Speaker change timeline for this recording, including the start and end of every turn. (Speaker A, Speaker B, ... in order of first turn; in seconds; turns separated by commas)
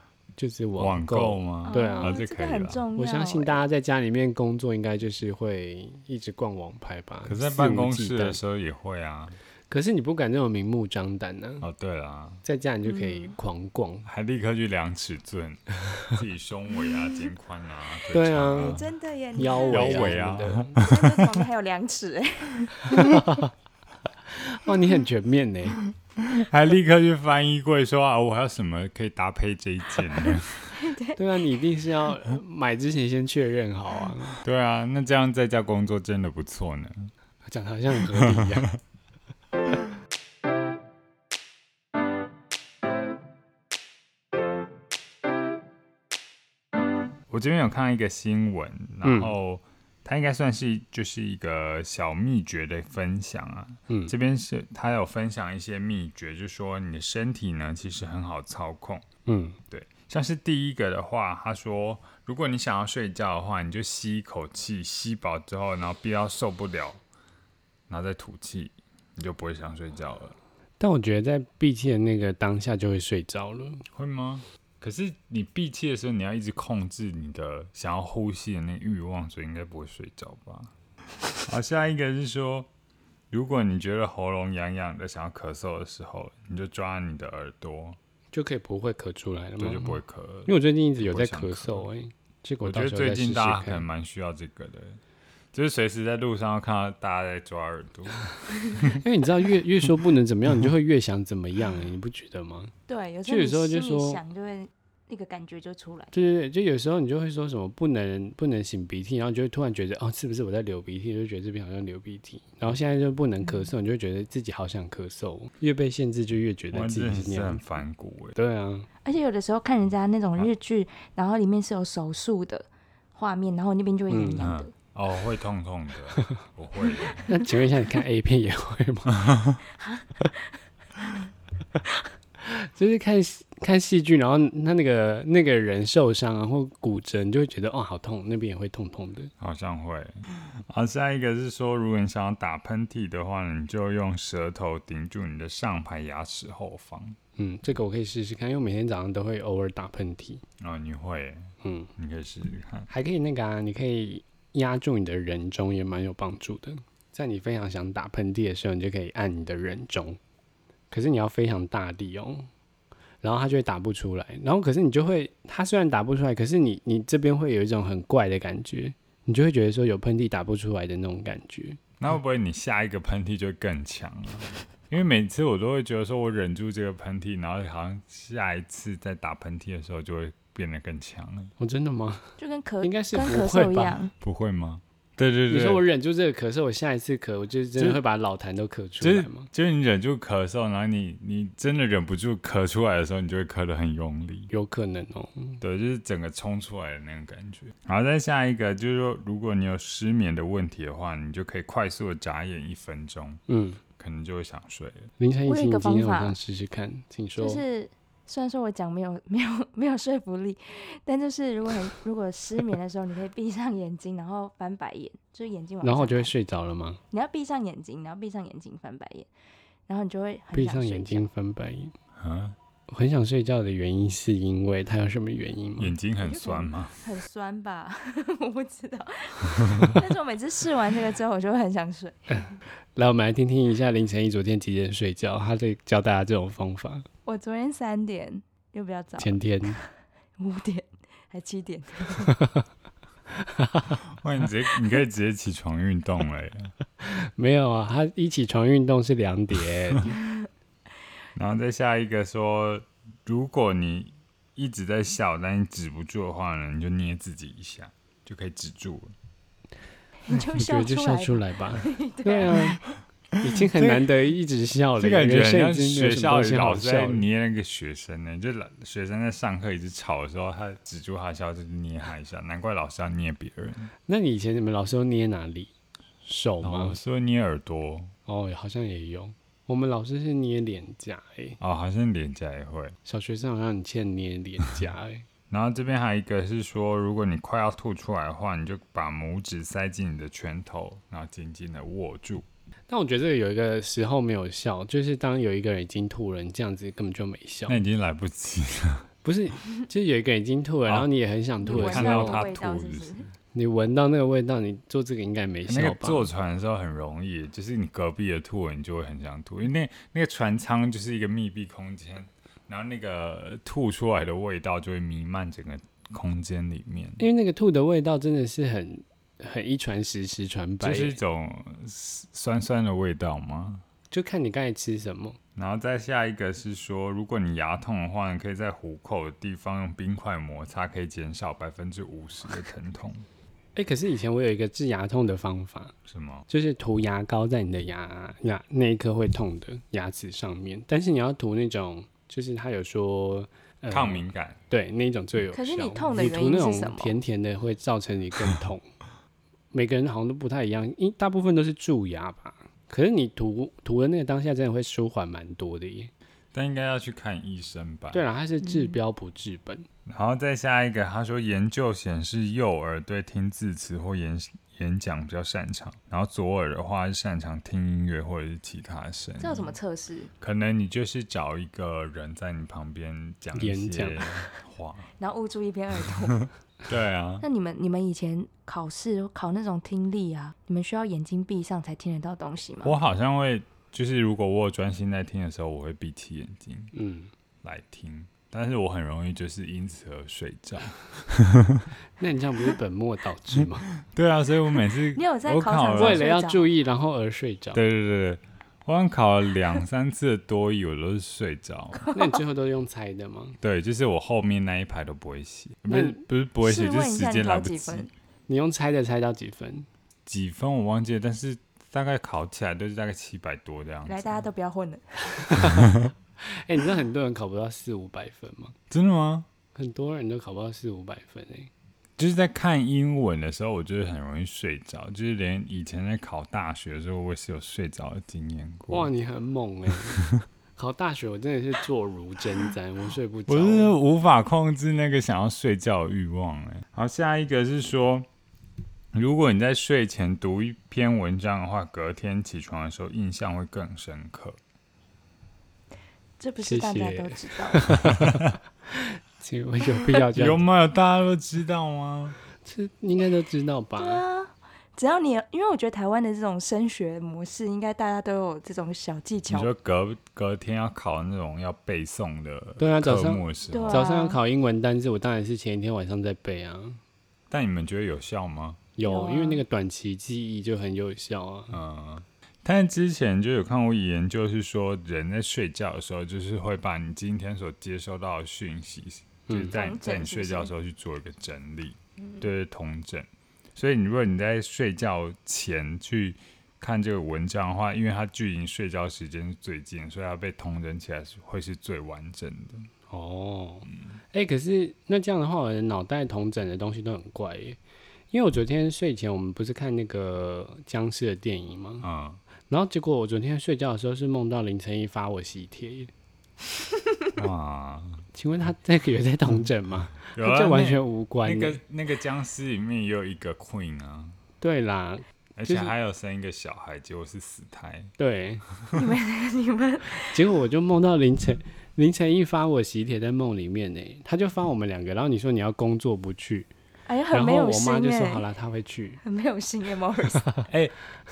Speaker A: 0.4-2.2, Speaker B: 0.8-2.8, Speaker C: 1.6-3.7, Speaker A: 3.0-8.4, Speaker B: 7.2-9.4, Speaker A: 9.7-11.7, Speaker B: 11.6-12.4, Speaker A: 12.4-14.1, Speaker C: 12.8-13.4, Speaker B: 14.1-18.9, Speaker A: 18.1-18.8, Speaker C: 18.5-20.2, Speaker A: 19.4-20.9, Speaker B: 19.7-21.3, Speaker C: 20.8-23.1, Speaker A: 22.9-23.5, Speaker A: 24.3-25.8, Speaker B: 26.2-30.8, Speaker C: 30.8-31.2, Speaker A: 31.2-34.4, Speaker B: 34.4-37.1, Speaker A: 37.4-38.7, Speaker B: 38.1-38.8, Speaker B: 47.3-59.0, Speaker A: 49.0-49.3, Speaker A: 53.9-54.1, Speaker A: 59.3-59.6, Speaker B: 59.7-67.0, Speaker B: 67.9-70.3, Speaker A: 70.8-73.8, Speaker B: 73.9-80.7, Speaker B: 81.4-82.7, Speaker B: 83.3-88.0, Speaker A: 88.3-93.8, Speaker B: 89.6-91.9, Speaker B: 92.6-95.0, Speaker B: 95.5-99.0, Speaker A: 98.9-102.7, Speaker C: 102.9-106.1, Speaker A: 103.3-104.2, Speaker A: 106.1-117.6, Speaker C: 113.4-113.7, Speaker B: 116.7-118.4, Speaker A: 118.3-118.9, Speaker C: 119.0-124.7, Speaker A: 124.1-124.4, Speaker B: 124.4-127.3, Speaker A: 127.2-129.2, Speaker B: 129.1-129.6, Speaker C: 129.8-130.1, Speaker A: 132.4-139.3, Speaker B: 139.4-147.2, Speaker A: 147.4-150.4, Speaker B: 150.6-152.9, Speaker A: 151.6-151.9, Speaker A: 152.9-160.2, Speaker A: 160.9-162.5, Speaker A: 163.2-171.8, Speaker B: 172.0-181.5, Speaker A: 181.6-184.0, Speaker C: 182.4-184.1, Speaker B: 184.2-185.8, Speaker A: 185.5-189.5, Speaker B: 189.0-194.5, Speaker A: 194.5-195.6, Speaker B: 195.6-203.4, Speaker A: 203.5-203.8, Speaker B: 204.0-205.1, Speaker A: 205.2-207.6, Speaker C: 205.4-206.4, Speaker C: 207.4-216.3, Speaker A: 215.8-217.0, Speaker C: 217.1-219.3, Speaker C: 219.9-221.3, Speaker A: 220.5-221.9, Speaker B: 222.2-222.6, Speaker A: 222.9-225.9, Speaker B: 225.8-226.9, Speaker C: 226.2-232.4, Speaker A: 232.9-237.1, Speaker C: 237.2-239.8, Speaker A: 239.2-239.8, Speaker C: 240.4-242.3, Speaker A: 242.3-242.6, Speaker A: 243.3-244.0, Speaker B: 244.2-246.7, Speaker A: 247.0-250.2, Speaker B: 251.3-259.1, Speaker C: 260.3-262.9, Speaker A: 260.3-262.8, Speaker A: 263.4-267.2, Speaker B: 263.5-264.0, Speaker B: 265.0-273.9, Speaker A: 274.1-275.7, Speaker A: 276.2-277.0, Speaker B: 276.6-278.1, Speaker A: 278.2-281.6, Speaker B: 281.6-283.0, Speaker A: 283.0-285.2, Speaker B: 285.5-292.4, Speaker A: 292.9-297.8, Speaker B: 297.7-299.1, Speaker A: 299.2-302.4, Speaker C: 301.6-303.2, Speaker B: 301.7-303.3, Speaker A: 303.5-306.3, Speaker B: 305.7-317.3, Speaker A: 317.2-321.1, Speaker B: 320.8-323.8, Speaker A: 324.1-325.4, Speaker B: 325.6-333.2, Speaker A: 333.8-335.9, Speaker B: 336.1-336.4, Speaker A: 336.5-348.9, Speaker B: 343.9-344.6, Speaker C: 345.5-347.2, Speaker A: 349.7-356.1, Speaker B: 356.5-358.2, Speaker A: 358.1-359.9, Speaker C: 358.6-359.0, Speaker B: 360.1-369.8, Speaker C: 369.4-370.3, Speaker B: 370.4-375.1, Speaker A: 373.5-374.3, Speaker C: 375.2-376.5, Speaker B: 376.9-377.4, Speaker C: 377.4-382.9, Speaker B: 382.8-386.9, Speaker A: 386.9-387.3, Speaker B: 387.6-391.9, Speaker A: 392.2-393.9, Speaker B: 394.0-396.2, Speaker C: 395.1-396.7, Speaker A: 395.9-397.8, Speaker B: 397.7-402.1, Speaker A: 402.1-403.6, Speaker B: 403.6-408.1, Speaker A: 405.9-406.2, Speaker C: 406.6-408.1, Speaker A: 408.5-409.9, Speaker B: 410.2-414.4, Speaker C: 414.1-415.6, Speaker A: 415.4-418.7, Speaker B: 418.9-419.5, Speaker A: 419.7-421.7, Speaker B: 422.2-429.1, Speaker A: 428.9-433.9, Speaker B: 433.5-438.3, Speaker B: 439.1-444.6, Speaker C: 446.4-447.9, Speaker A: 446.6-450.6, Speaker B: 450.3-452.4, Speaker A: 452.6-454.2, Speaker C: 454.0-459.7, Speaker B: 459.5-464.0, Speaker A: 462.8-467.0, Speaker C: 463.7-464.4, Speaker B: 467.5-468.8, Speaker A: 469.0-471.8, Speaker C: 469.0-469.6, Speaker B: 471.7-492.9, Speaker C: 479.7-480.7, Speaker A: 493.1-497.8, Speaker A: 498.3-502.1, Speaker B: 502.0-502.4, Speaker A: 502.7-506.1, Speaker B: 507.3-508.2, Speaker A: 508.3-511.8, Speaker B: 510.3-514.4, Speaker A: 514.6-515.9, Speaker B: 515.5-518.1, Speaker A: 518.2-518.6, Speaker C: 518.9-520.4, Speaker A: 520.1-526.7, Speaker C: 527.0-528.4, Speaker A: 527.3-529.2, Speaker C: 529.2-530.6, Speaker B: 530.7-530.9